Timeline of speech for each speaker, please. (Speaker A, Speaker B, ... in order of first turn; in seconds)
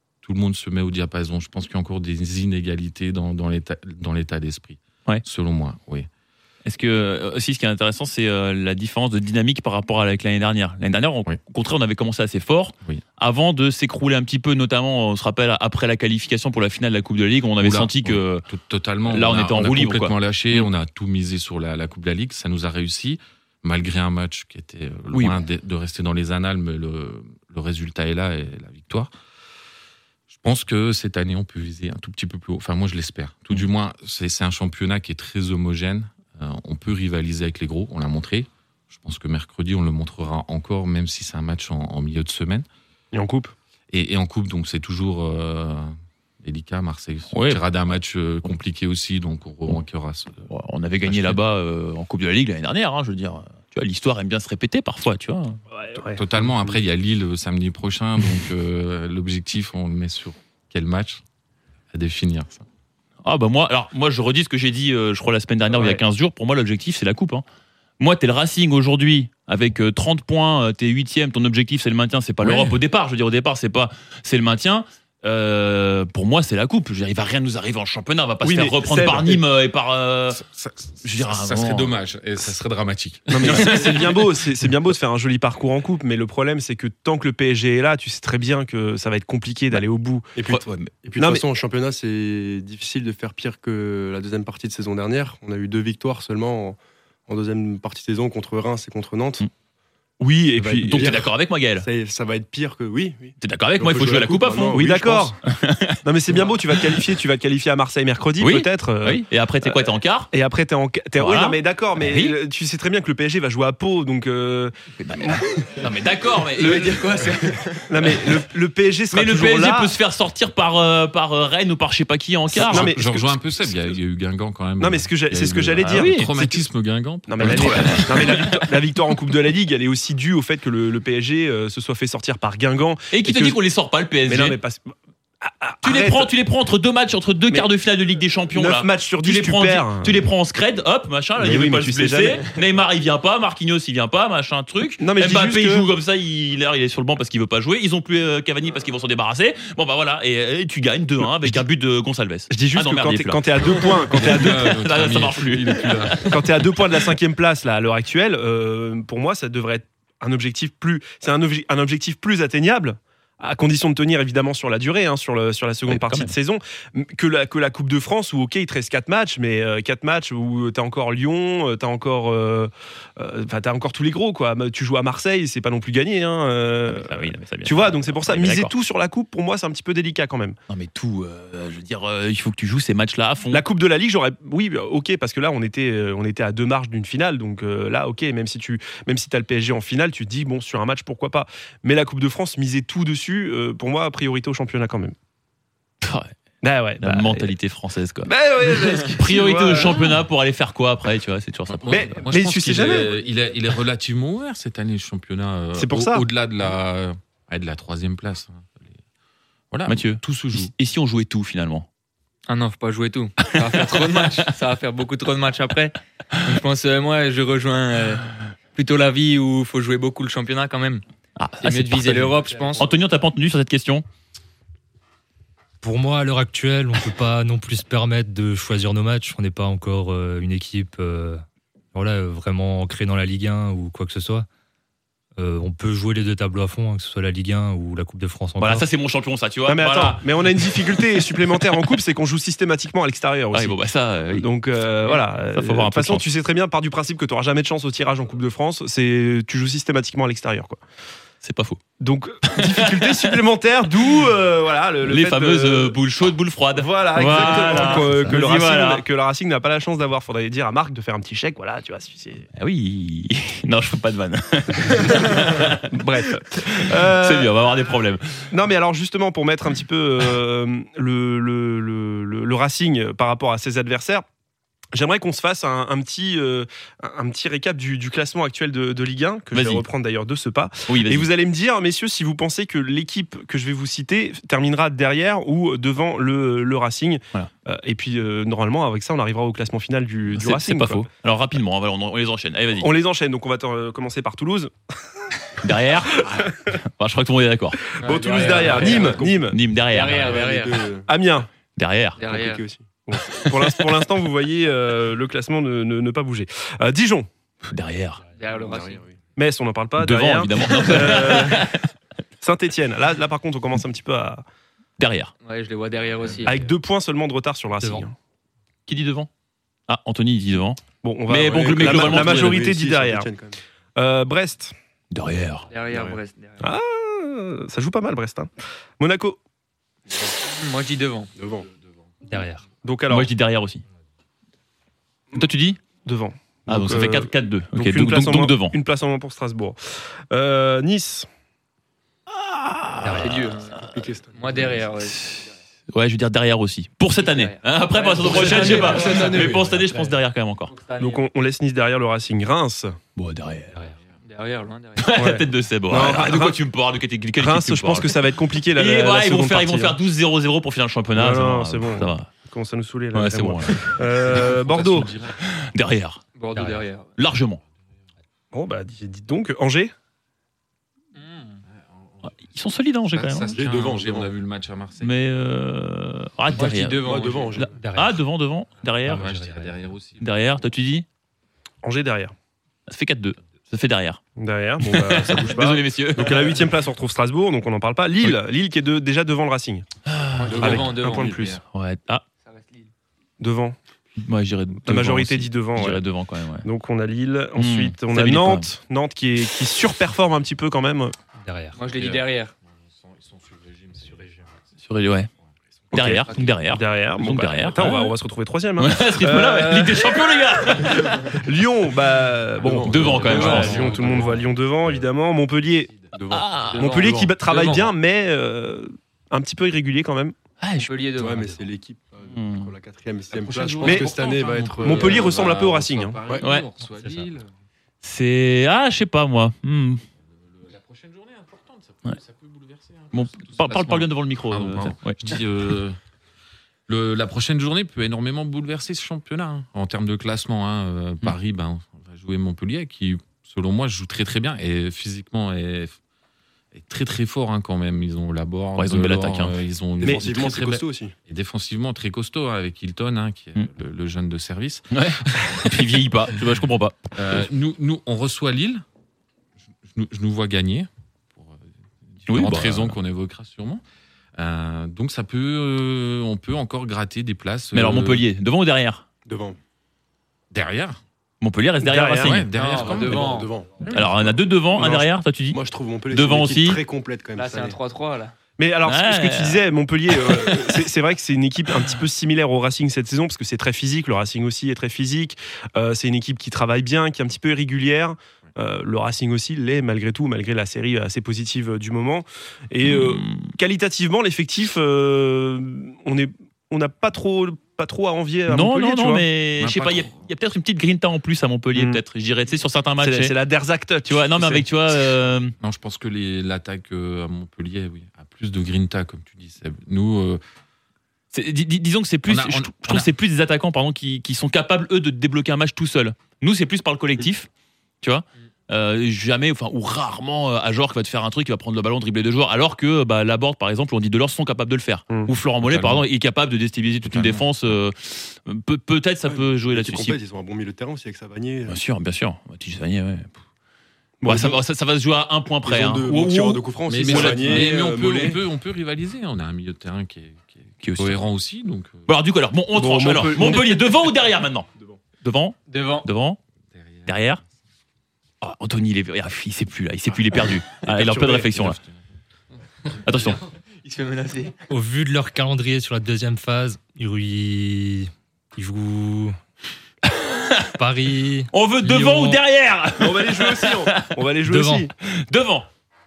Speaker A: 0.2-6.1, 17.6-29.1, 30.3-42.7, 43.9-50.5, 51.0-51.4, 56.1-61.2, 61.9-62.6, 80.3-83.8, 122.5-128.5, 153.6-156.6, 201.7-209.0, 209.7-210.7, 364.1-365.4, 371.7-372.4, 373.2-375.1, 379.1-380.3, 401.9-404.6, 405.9-406.5, 423.3-427.5, 430.4-436.0, 436.9-446.0, 446.7-455.7, 457.1-458.8, 459.8-463.8, 464.4-468.3, 470.5-471.0, 472.2-473.4, 499.6-500.1, 505.6-510.4, 512.3-513.1, 525.6-526.0, 527.1-527.7, 536.9-542.1, 546.7-547.4, 551.5-552.0
Speaker B: 6.7-18.4, 19.1-20.7, 25.1-25.4, 47.3-47.6, 50.5-55.6, 63.2-67.4, 68.0-80.4, 81.0-81.9, 83.4-84.2, 90.5-90.9, 100.8-101.9, 103.4-107.1, 108.4-110.3, 111.2-112.4, 115.0-118.5, 119.1-122.9, 125.9-126.3, 127.4-128.7, 133.1-134.6, 135.8-156.3, 165.9-166.3, 176.9-178.7, 180.7-183.6, 196.0-196.3, 197.0-198.3, 199.1-202.2, 209.9-211.9, 213.5-214.5, 221.4-224.1, 238.6-241.0, 243.5-244.5, 245.0-246.2, 251.4-251.8, 252.5-253.4, 254.0-254.3, 255.0-259.0, 262.6-268.5, 279.5-279.8, 280.9-281.3, 290.3-292.9, 295.6-297.8, 298.7-300.5, 301.8-302.2, 303.3-303.8, 307.7-308.2, 310.0-311.9, 315.0-315.3, 318.9-319.3, 319.9-322.6, 325.1-325.7, 333.1-333.8, 335.3-335.8, 336.7-338.8, 342.3-343.9, 345.0-350.7, 353.2-353.8, 355.0-362.3, 363.1-364.4, 365.4-366.2, 367.2-367.6, 372.4-373.6, 375.0-379.3, 380.2-381.1, 382.9-384.2, 384.8-386.7, 390.1-390.9, 391.7-392.2, 394.2-396.7, 397.6-398.7, 404.8-405.3, 405.9-408.1, 408.8-411.3, 412.9-413.9, 416.3-417.7, 420.6-420.9, 422.3-422.7, 426.4-426.7, 428.0-430.0, 433.1-435.4, 448.8-449.6, 454.9-457.5, 462.3-462.9, 467.7-469.1, 471.4-472.5, 473.9-476.8, 478.9-480.9, 492.8-493.5, 498.5-503.3, 504.1-505.6, 511.3-517.5, 518.0-530.2, 531.7-533.4, 534.2-537.7, 540.8-541.2, 542.1-544.7, 545.2-546.4, 547.1-547.4, 548.4-551.8, 553.0-553.4, 560.1-560.7, 561.5-564.1, 565.0-565.7
Speaker C: 43.1-43.5, 55.7-56.7, 65.7-66.0, 78.4-79.4, 83.3-90.3, 91.2-91.4, 100.2-101.2, 104.7-105.4, 106.0-115.4, 117.9-119.9, 122.5-123.9, 124.8-126.6, 127.3-133.6, 134.3-136.3, 138.5-140.3, 141.4-142.4, 145.0-145.9, 152.5-154.7, 156.3-180.6, 183.5-195.2, 196.6-197.5, 198.2-200.2, 201.9-203.1, 205.8-206.2, 239.7-243.8, 244.3-250.8, 252.0-256.0, 256.7-262.5, 264.8-267.5, 268.5-274.2, 274.9-291.1, 292.8-294.7, 296.2-296.6, 298.0-299.6, 301.1-301.5, 303.1-307.3, 309.4-311.8, 312.4-314.4, 316.5-318.1, 321.0-323.3, 324.0-324.7, 326.6-329.4, 332.8-333.3, 336.1-341.3, 351.0-353.0, 355.1-356.6, 357.4-360.0, 361.1-365.1, 368.5-369.9, 381.8-382.3, 384.4-389.9, 390.6-391.6, 393.4-393.8, 394.8-396.0, 396.6-401.1, 405.9-416.1, 416.8-420.4, 423.8-424.1, 424.8-426.2, 471.8-472.5, 478.6-499.2, 501.8-502.0, 503.0-504.7, 534.2-534.6, 542.8-543.7, 550.9-551.5, 563.0-564.9
Speaker D: 90.3-99.5, 100.5-105.1, 298.0-299.5, 300.1-301.1, 302.2-302.9, 308.5-309.2, 321.5-323.6, 325.9-326.2, 331.4-331.7, 343.6-344.9, 373.3-374.3, 377.0-377.7, 390.6-391.5, 412.6-414.5, 416.1-417.4, 421.1-425.7, 450.0-451.1, 469.3-469.6, 472.7-474.1, 474.8-477.8, 529.3-531.8, 535.6-538.4
Speaker E: 116.6-117.9, 212.5-218.2, 218.8-221.0, 221.6-222.9, 298.0-299.2, 299.9-300.9, 302.2-302.6, 308.4-309.0, 315.4-316.6, 325.7-326.7, 330.4-331.3, 343.1-345.3, 347.2-350.1, 350.7-351.2, 354.3-355.2, 366.4-367.1, 371.2-371.6, 376.5-377.6, 390.4-391.6, 392.4-392.9, 401.8-402.5, 413.3-413.7, 416.6-417.9, 420.8-421.6, 472.5-473.6, 477.4-478.3, 545.7-546.1, 553.8-554.5
Speaker F: 225.8-231.4, 231.9-234.5, 235.4-238.8, 317.8-318.1, 332.3-332.6, 343.0-343.4, 349.0-349.9, 366.5-366.9, 377.7-378.2, 379.1-379.8, 401.4-401.8, 427.0-427.3, 554.7-559.4, 560.8-562.4, 564.5-564.8